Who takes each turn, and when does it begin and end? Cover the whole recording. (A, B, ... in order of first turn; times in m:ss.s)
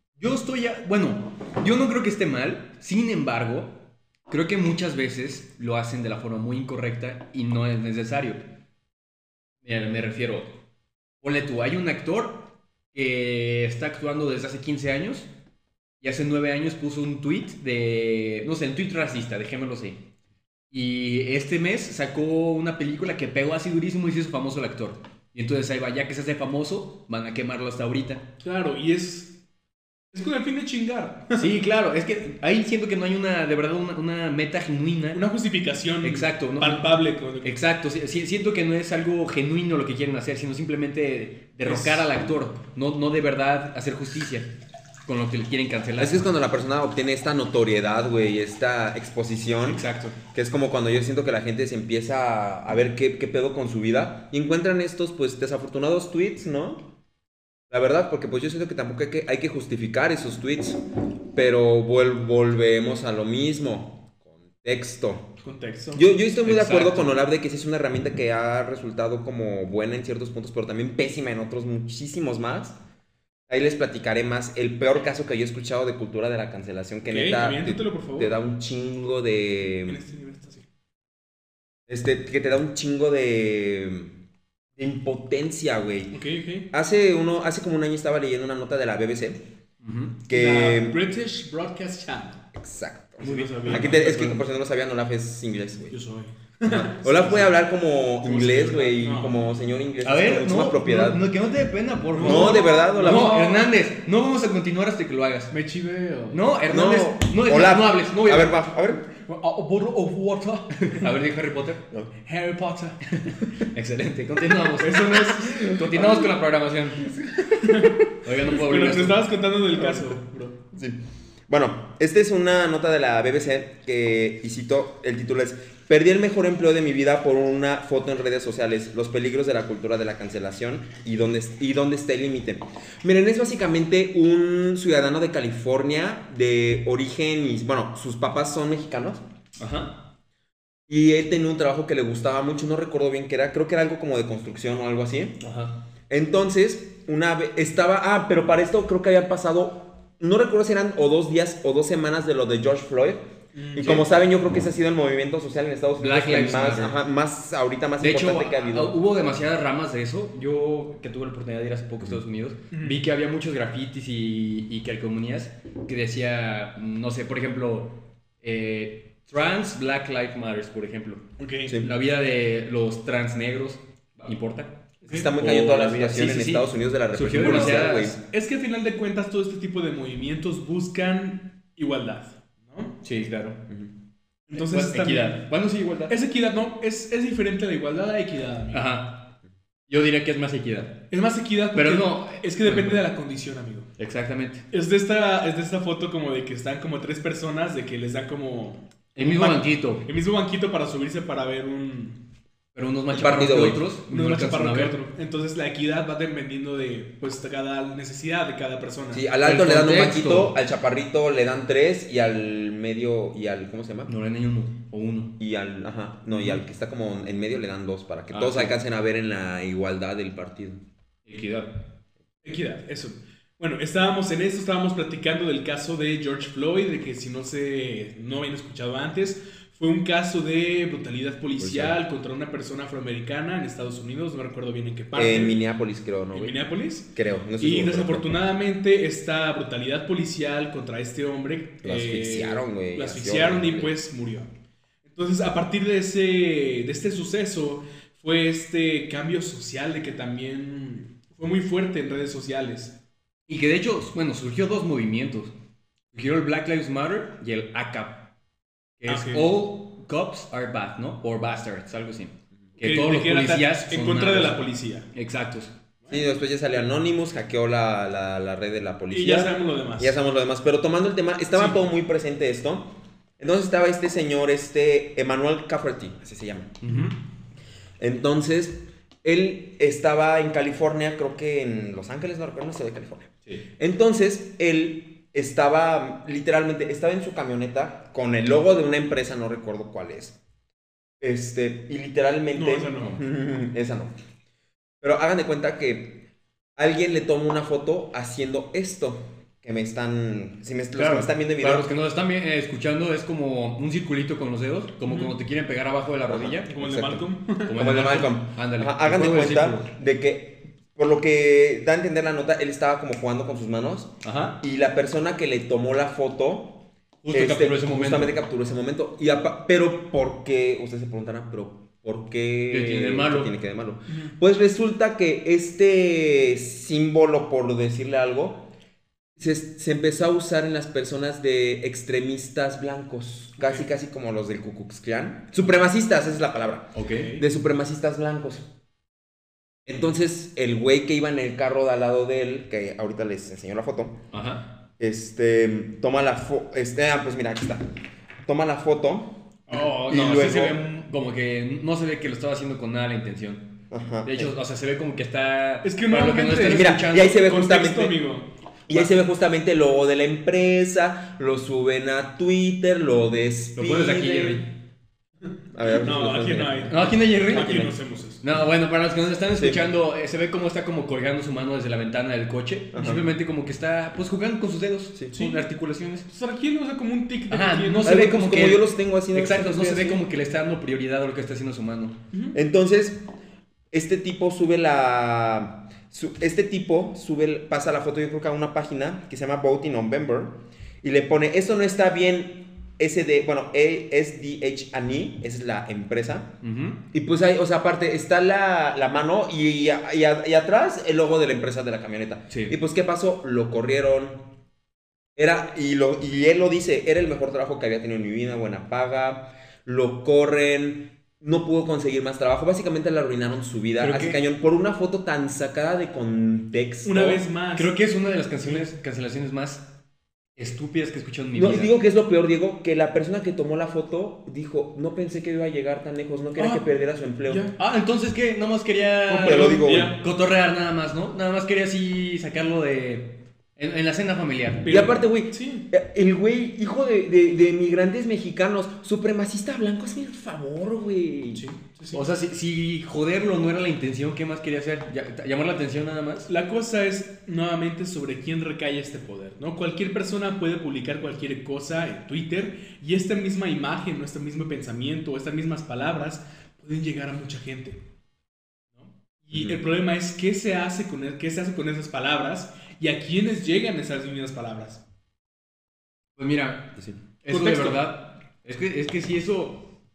0:00.2-0:08.4 A
0:09.6-0:10.6 A
0:11.2-0:15.3 A
0:16.0-0:20.1 A
0:20.7-0:28.3 A
0:28.4-0:29.4 B
0:30.1-0:31.5 B
0:31.4-0:35.2 A
0:35.1-0:37.5 B
0:36.0-0:44.5 A
0:41.6-0:42.1 B
0:45.1-0:46.3 A
0:46.0-0:56.8 C
0:49.6-0:50.2 A
0:57.7-1:05.3 C
1:05.4-1:06.2 B
1:05.9-1:12.8 C
1:06.4-1:07.2 A
1:13.5-1:20.0 C
1:17.1-1:18.4 B
1:19.9-1:20.7 B
1:21.9-1:24.1 C
1:24.8-1:26.2 C
1:26.1-1:26.7 B
1:26.7-1:29.4 C
1:29.8-1:30.2 A
1:30.3-1:31.0 C
1:30.3-1:32.4 B
1:32.6-1:35.9 C
1:33.2-1:34.4 B
1:33.2-1:34.3 A
1:35.9-1:37.6 B
1:36.6-1:41.2 C
1:38.2-1:39.5 B
1:40.0-1:45.5 A
1:42.1-1:43.7 B
1:42.2-1:43.4 C
1:45.5-1:46.4 B
1:46.3-1:48.7 A
1:46.7-1:49.0 C
1:49.2-1:51.1 B
1:50.8-1:51.9 A
1:52.2-1:53.1 B
1:53.3-1:57.2 A
1:54.7-1:56.3 B
1:57.4-2:00.6 B
1:58.2-1:59.3 A
1:59.9-2:00.2 C
2:00.7-2:01.0 C
2:01.5-2:19.2 C
2:19.6-2:20.0 A
2:20.9-2:25.4 C
2:25.4-2:25.7 A
2:26.1-2:33.2 C
2:33.6-2:34.1 B
2:33.7-2:39.0 C
2:36.0-2:37.0 A
2:38.0-2:58.2 A
2:42.7-2:43.0 B
2:51.4-2:51.8 B
2:55.0-2:55.3 B
2:55.1-2:58.2 C
2:57.3-3:03.0 B
3:03.0-3:03.6 A
3:04.5-3:05.5 B
3:04.6-3:06.1 A
3:06.1-3:08.9 B
3:08.7-3:09.3 A
3:09.9-3:11.1 A
3:11.1-3:13.9 B
3:11.8-3:13.1 A
3:14.0-3:14.6 A
3:14.7-3:22.2 B
3:19.2-3:20.0 A
3:22.8-3:25.0 A
3:23.1-3:23.8 C
3:24.1-3:29.3 B
3:29.1-3:34.1 C
3:29.4-3:30.5 A
3:34.1-3:35.3 A
3:35.4-3:40.8 C
3:36.3-3:36.6 A
3:38.3-3:38.8 A
3:41.3-3:41.7 A
3:42.4-3:55.6 B
3:51.6-3:52.0 C
3:55.2-3:56.6 C
3:56.3-4:04.5 B
3:57.1-3:58.4 C
4:01.8-4:03.9 C
4:05.1-4:13.0 B
4:13.5-4:15.5 A
4:16.1-4:18.3 A
4:19.0-4:24.6 A
4:19.1-4:19.5 B
4:22.8-4:25.1 B
4:25.1-4:25.7 A
4:26.1-4:36.8 C
4:29.1-4:30.2 B
4:36.8-4:37.1 A
4:36.9-4:37.1 B
4:38.0-4:50.4 C
4:51.2-4:54.1 C
4:52.5-4:53.2 B
4:55.0-4:56.2 C
4:56.8-5:01.9 C
5:01.0-5:06.7 A
5:05.0-5:05.4 B
5:06.3-5:28.7 C
5:06.7-5:07.8 B
5:07.6-5:09.9 A
5:14.2-5:14.6 A
5:17.2-5:18.4 A
5:22.7-5:23.5 A
5:24.1-5:24.4 B
5:29.4-5:38.7 C
5:33.6-5:33.8 B
5:37.0-5:37.4 A
5:37.2-5:37.4 B
5:39.9-5:44.2 C
5:44.3-5:44.7 A
5:45.0-5:47.8 C
5:48.4-5:50.8 C
5:49.7-5:57.4 A
5:53.9-5:54.5 C
5:55.8-5:59.1 B
5:56.7-5:58.2 C
5:58.9-6:04.6 C
6:03.8-6:04.7 A
6:05.7-6:06.9 C
6:06.0-6:08.4 B
6:06.9-6:16.3 A
6:07.5-6:07.9 C
6:09.6-6:09.8 C
6:12.9-6:13.2 C
6:15.3-6:15.6 B
6:16.3-6:18.3 B
6:17.5-6:22.2 A
6:18.0-6:20.2 C
6:19.8-6:20.2 B
6:22.3-6:22.6 B
6:22.5-6:23.2 C
6:23.9-6:36.5 C
6:36.6-6:37.0 A
6:37.1-6:44.4 C
6:42.5-6:42.8 A
6:45.4-6:57.4 C
6:54.0-6:54.4 A
6:57.0-6:57.9 B
6:57.8-6:59.8 A
7:00.6-7:01.9 A
7:01.6-7:07.7 C
7:06.6-7:06.8 B
7:07.5-7:07.8 B
7:07.8-7:15.0 A
7:09.3-7:10.2 B
7:09.4-7:10.1 C
7:14.8-7:15.9 B
7:14.9-7:21.6 C
7:21.6-7:22.2 B
7:22.1-7:26.5 A
7:26.5-7:38.0 B
7:39.4-7:45.0 B
7:39.5-7:39.8 C
7:46.4-7:49.9 A
7:47.5-7:48.0 B